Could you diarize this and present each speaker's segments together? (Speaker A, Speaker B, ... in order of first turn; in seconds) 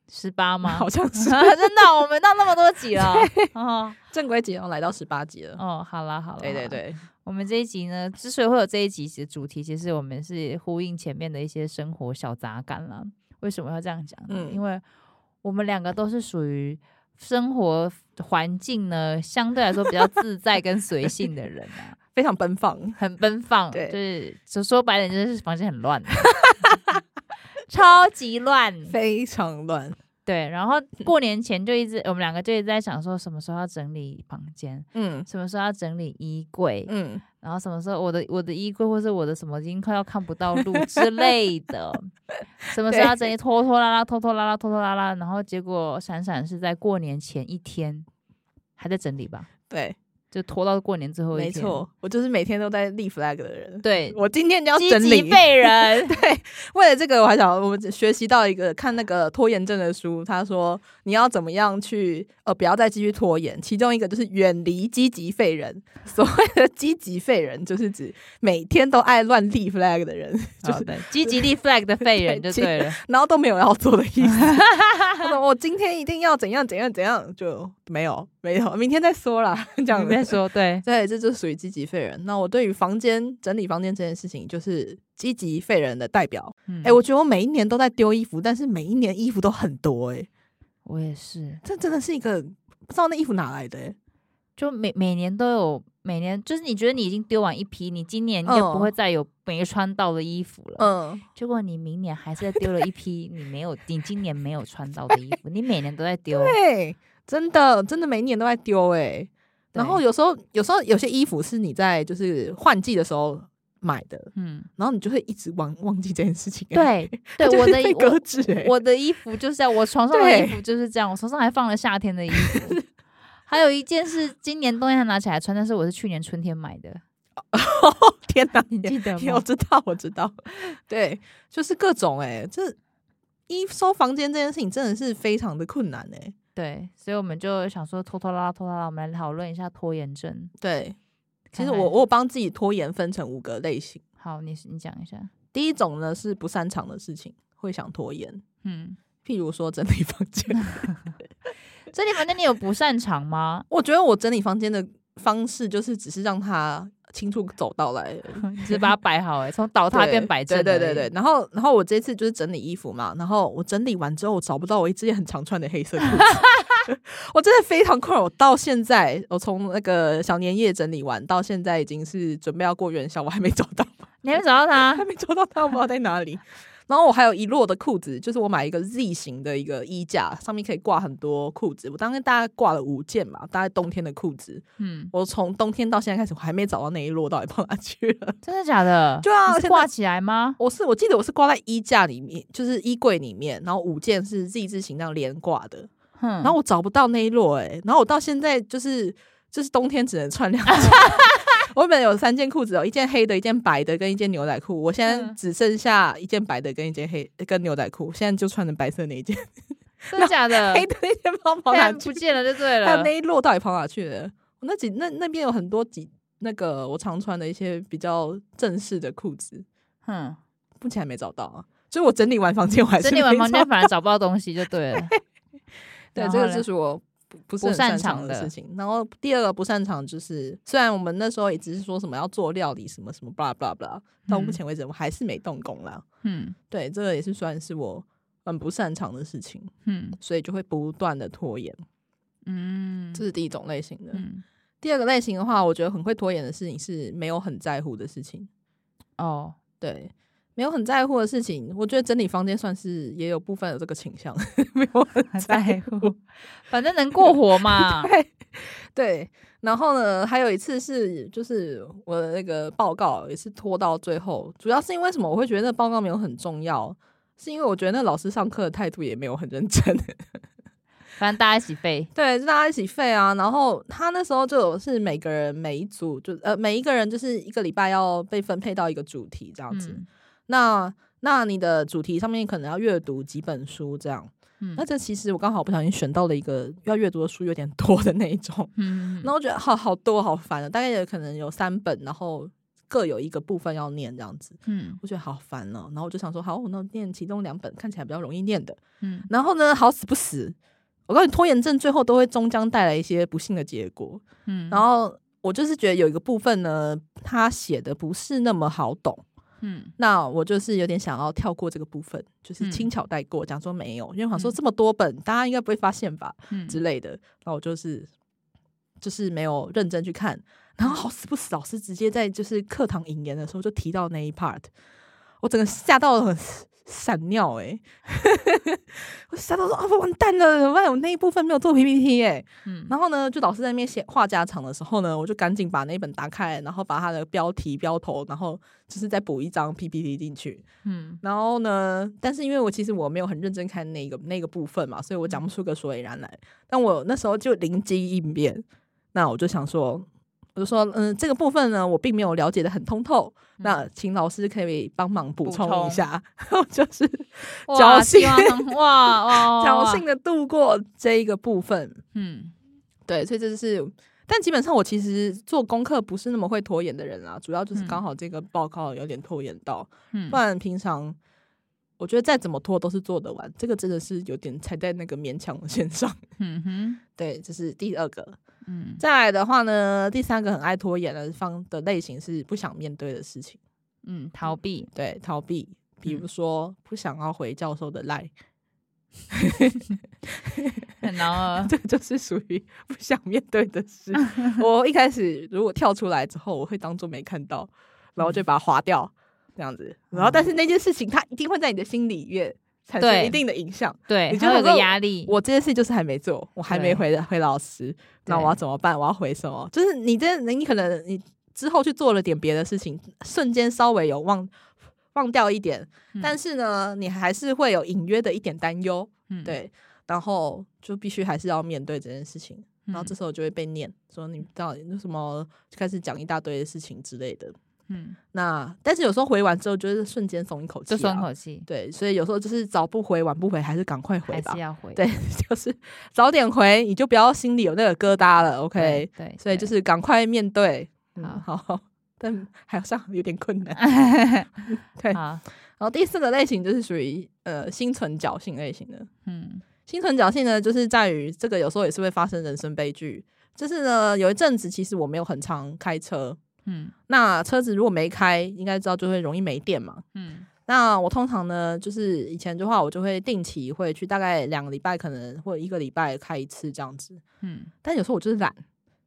Speaker A: 0.1-4.0, 5.6-14.8, 15.4-22.0, 23.0-26.7, 27.7-28.9, 30.3-42.1, 42.7-48.1, 48.8-49.5, 50.3-51.8, 53.8-54.2, 54.7-56.2, 70.6-73.0, 74.2-75.3, 79.9-80.8, 86.7-87.0, 90.8-91.6, 94.6-106.6, 109.7-110.0, 114.4-114.7, 116.7-122.8, 123.5-127.0, 128.7-129.4, 136.6-140.5, 141.5-141.9, 144.2-145.3, 148.6-149.0, 150.8-151.1, 151.9-153.7, 158.4-161.1, 166.2-166.8, 174.2-175.1, 184.8-185.1, 188.4-190.6, 196.2-196.5, 200.7-201.3, 205.1-205.4, 210.1-210.9, 211.7-213.1, 220.1-220.4, 223.0-225.2, 226.2-226.7, 227.6-228.5, 234.3-234.6, 236.2-236.6, 239.8-240.2, 242.5-243.2, 244.1-244.4, 249.2-249.6, 255.3-258.1, 271.2-272.1, 279.7-280.1, 288.8-289.3, 294.7-295.0, 299.0-299.3, 304.5-304.8, 309.6-309.9, 312.6-312.9, 316.5-316.8, 332.7-332.9, 340.9-341.2, 353.6-353.8, 355.4-356.1, 357.7-360.0, 362.1-362.5, 370.1-370.4, 376.4-377.0, 378.7-379.0, 384.1-384.9, 391.0-391.7, 394.2-394.6, 400.1-400.5, 403.0-403.4, 404.1-405.4, 406.7-407.0, 408.3-408.6, 419.3-419.6, 422.9-423.1, 427.9-428.2, 430.9-431.7, 434.3-435.0, 438.8-439.7, 443.8-445.4, 449.3-449.6, 456.7-456.9, 460.1-460.5, 467.4-467.7
Speaker B: 0.6-1.8, 3.0-3.5, 4.1-5.6, 6.4-7.0, 14.3-14.6, 22.1-23.0, 26.3-27.0, 28.9-30.0, 35.0-35.3, 36.9-37.2, 42.9-43.3, 49.7-50.0, 51.3-71.5, 72.0-74.6, 75.2-90.3, 91.6-94.0, 98.5-98.9, 100.8-101.2, 106.3-118.7, 120.1-120.6, 122.4-122.7, 127.5-132.8, 133.5-136.3, 140.6-141.0, 141.6-144.0, 145.5-148.4, 149.2-150.9, 153.7-158.9, 159.9-173.9, 174.9-188.4, 189.2-189.9, 190.6-195.9, 196.4-209.4, 210.1-212.2, 212.8-219.7, 220.8-223.9, 226.2-236.1, 236.7-241.8, 243.2-244.2, 244.8-248.5, 249.8-256.1, 257.2-270.2, 272.1-300.6, 301.1-309.2, 310.0-318.1, 319.0-324.7, 325.4-340.6, 341.2-362.0, 363.1-371.2, 372.0-376.2, 377.2-378.4, 379.0-383.6, 384.9-388.3, 389.3-390.9, 391.6-414.5, 415.1-427.6, 428.3-443.8, 444.9-445.2, 445.8-449.1, 449.9-456.4, 457.1-460.0, 460.7-467.2, 467.8-468.6